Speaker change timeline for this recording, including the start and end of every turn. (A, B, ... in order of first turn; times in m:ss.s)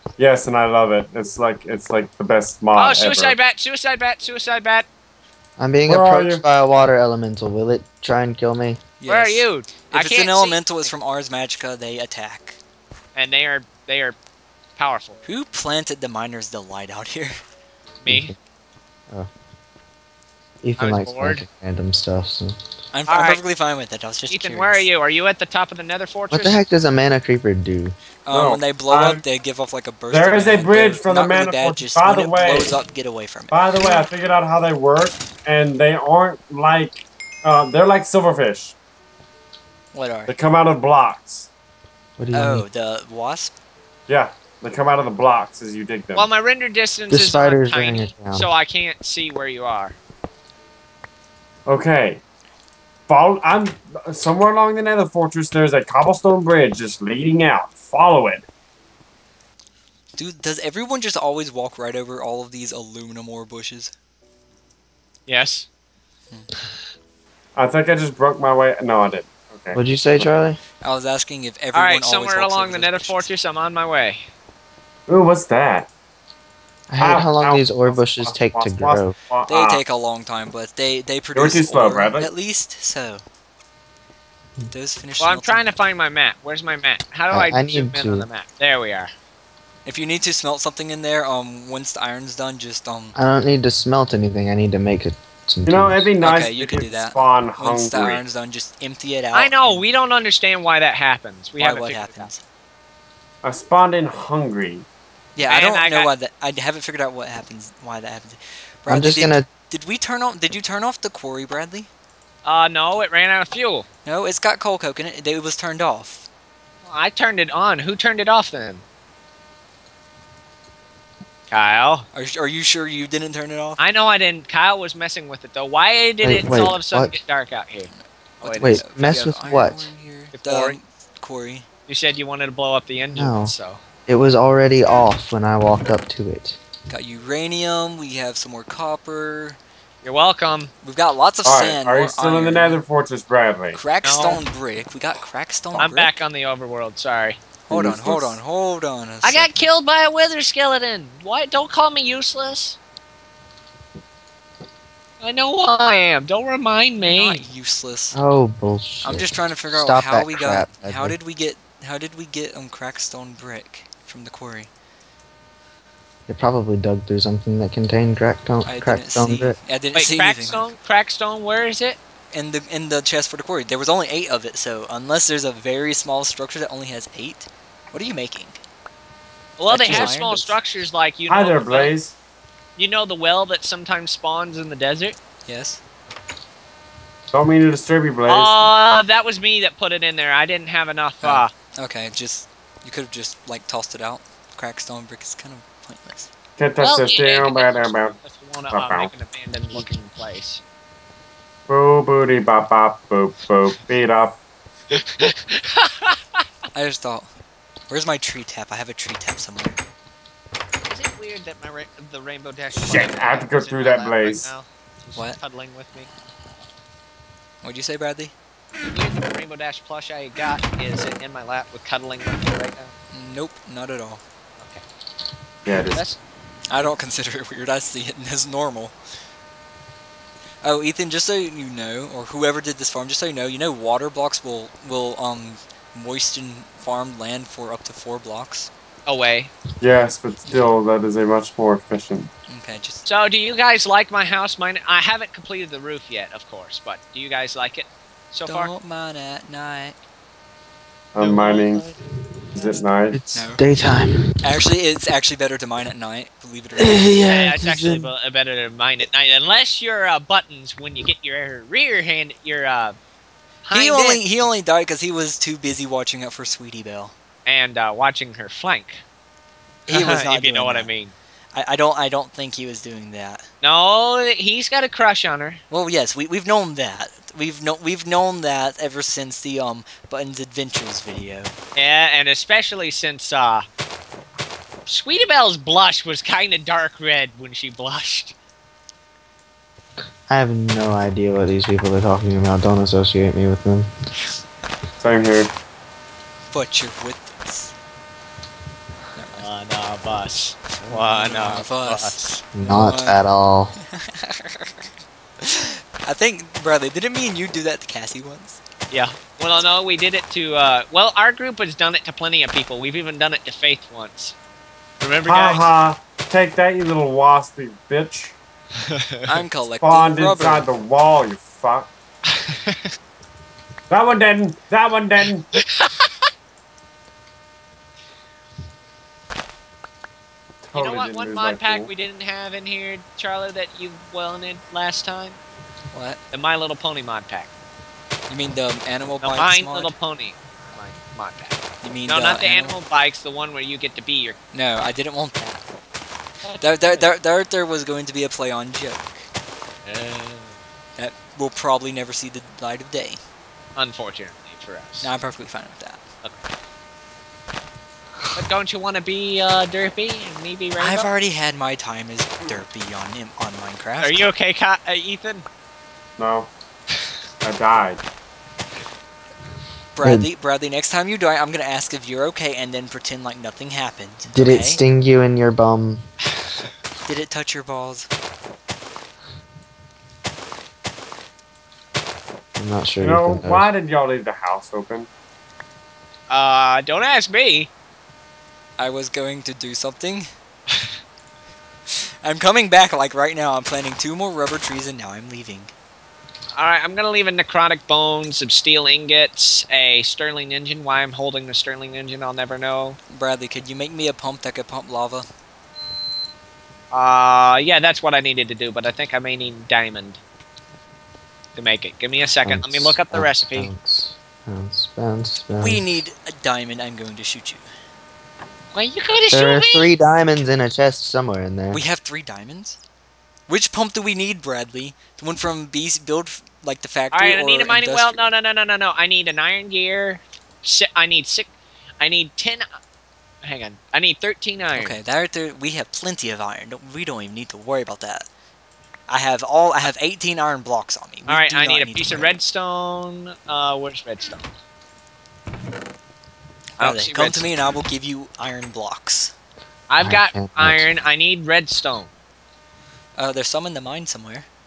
0:00.2-0:03.4 A
0:02.7-0:04.9 B
0:05.6-0:08.8 C
0:05.8-0:06.4 A
0:09.0-0:12.6 D
0:09.1-0:10.9 B
0:13.1-0:14.2 B
0:14.8-0:15.2 B
0:15.2-0:17.4 D
0:18.0-0:18.3 B
0:18.0-0:18.4 C
0:20.6-0:22.6 C
0:20.8-0:21.4 B
0:22.9-0:24.9 D
0:23.1-0:23.4 B
0:24.3-0:26.6 B
0:26.3-0:27.9 C
0:28.2-0:33.6 D
0:28.3-0:29.2 A
0:30.1-0:32.8 A
0:33.5-0:38.7 A
0:39.9-0:40.3 D
0:40.3-0:41.5 A
0:42.2-0:42.6 C
0:42.3-0:43.5 D
0:44.1-0:46.3 A
0:46.1-0:50.0 B
0:47.1-0:48.5 C
0:51.7-0:52.2 A
0:53.1-0:58.4 A
1:00.2-1:03.9 D
1:05.3-1:05.7 B
1:07.6-1:10.2 A
1:09.7-1:10.6 C
1:10.8-1:13.3 D
1:11.7-1:14.2 B
1:15.1-1:15.9 A
1:16.9-1:19.1 C
1:17.0-1:19.8 A
1:19.4-1:23.2 D
1:21.3-1:22.3 A
1:24.7-1:25.8 D
1:25.2-1:29.1 B
1:27.3-1:28.3 C
1:29.8-1:33.1 D
1:33.1-1:36.0 C
1:35.6-1:38.2 A
1:36.2-1:39.8 D
1:39.3-1:42.3 B
1:41.6-1:42.4 D
1:43.4-1:44.8 A
1:45.4-1:51.9 D
1:45.4-1:46.1 B
1:48.9-1:49.4 C
1:52.4-1:53.8 B
1:54.0-1:56.3 D
1:56.8-1:58.8 B
2:01.5-2:02.0 B
2:02.1-2:03.8 D
2:03.8-2:07.9 B
2:06.2-2:07.2 C
2:07.9-2:11.7 D
2:08.4-2:08.8 B
2:08.6-2:09.8 C
2:10.3-2:10.8 B
2:11.9-2:13.8 B
2:13.1-2:13.5 C
2:14.1-2:16.6 C
2:16.9-2:19.6 D
2:20.0-2:20.7 B
2:20.8-2:22.8 D
2:21.4-2:23.8 A
2:23.7-2:26.2 D
2:24.0-2:24.4 B
2:25.8-2:27.4 B
2:27.7-2:29.5 D
2:27.7-2:28.4 A
2:29.2-2:32.8 B
2:35.2-2:37.4 B
2:37.0-2:38.2 D
2:38.1-2:41.2 C
2:39.0-2:44.7 D
2:46.3-2:49.6 C
2:48.6-2:50.7 D
2:49.9-2:52.0 B
2:52.3-2:58.6 D
2:59.6-3:01.9 B
2:59.7-3:00.6 D
2:59.8-3:00.1 A
3:01.3-3:02.1 A
3:02.8-3:05.2 B
3:05.4-3:05.8 D
3:07.3-3:08.7 A
3:08.3-3:11.5 B
3:11.2-3:16.3 D
3:16.6-3:18.2 A
3:16.8-3:20.6 B
3:18.7-3:19.1 A
3:21.7-3:24.4 A
3:24.9-3:26.4 B
3:26.7-3:27.3 D
3:27.9-3:29.8 D
3:30.8-3:36.1 B
3:32.7-3:34.5 A
3:37.6-3:38.3 D
3:38.8-3:42.9 B
3:43.1-3:44.2 D
3:44.6-3:44.8 B
3:45.6-3:46.0 A
3:45.9-3:46.2 B
3:46.7-3:48.9 D
3:50.6-3:58.7 D
3:59.0-3:59.5 B
3:59.8-4:02.3 A
4:02.5-4:03.0 D
4:03.0-4:08.7 B
4:08.4-4:10.0 D
4:11.1-4:11.8 A
4:11.2-4:12.0 B
4:12.5-4:12.8 B
4:12.6-4:13.2 A
4:13.1-4:14.3 C
4:13.3-4:13.6 D
4:14.4-4:17.3 D
4:16.8-4:18.1 C
4:17.2-4:23.0 B
4:23.6-4:24.5 B
4:23.7-4:27.1 D
4:27.4-4:29.0 B
4:29.9-4:30.9 D
4:29.9-4:31.1 B
4:31.5-4:33.4 D
4:33.6-4:35.6 B
4:35.7-4:41.5 D
4:41.8-4:43.6 B
4:44.8-4:48.3 B
4:50.3-4:53.9 C
4:55.0-4:55.5 A
4:56.5-4:57.7 D
4:59.1-4:59.5 D
4:59.4-5:02.2 B
5:00.8-5:03.2 D
5:02.5-5:03.7 C
5:03.9-5:04.9 D
5:05.4-5:08.6 D
5:08.9-5:14.3 B
5:15.0-5:15.6 B
5:15.2-5:18.4 A
5:18.9-5:19.2 B
5:19.2-5:20.6 D
5:19.8-5:21.9 A
5:22.3-5:22.9 B
5:23.9-5:25.5 A
5:25.6-5:26.1 B
5:30.6-5:31.9 A
5:30.7-5:35.4 B
5:35.9-5:36.2 D
5:36.3-5:37.5 B
5:38.3-5:39.9 D
5:39.2-5:44.4 B
5:41.8-5:42.8 D
5:44.5-5:45.6 D
5:46.4-5:47.1 B
5:46.6-5:49.3 D
5:49.8-5:50.6 B
5:51.0-5:53.2 D
5:53.8-5:55.1 B
5:55.0-5:56.0 D
5:58.4-6:01.1 B
6:00.8-6:04.2 D
6:04.0-6:05.4 B
6:06.2-6:06.5 A
6:07.4-6:08.0 A
6:09.9-6:14.8 D
6:10.0-6:10.3 C
6:14.3-6:16.0 C
6:17.0-6:18.1 D
6:22.6-6:23.7 C
6:23.0-6:25.1 A
6:26.3-6:27.7 B
6:28.8-6:30.3 D
6:32.2-6:35.7 D
6:36.6-6:43.0 B
6:43.1-6:45.3 D
6:46.9-6:50.2 B
6:51.5-6:53.7 B
6:52.4-6:55.9 C
6:55.6-6:57.7 D
6:58.7-7:00.1 B
6:59.3-7:01.8 C
7:01.7-7:02.8 D
7:03.5-7:08.3 D
7:07.1-7:12.7 B
7:13.4-7:15.0 B
7:14.7-7:18.3 D
7:19.1-7:22.4 D
7:21.2-7:24.5 B
7:26.8-7:29.3 D
7:26.8-7:27.5 B
7:29.9-7:32.1 B
7:30.0-7:30.8 C
7:33.2-7:34.5 D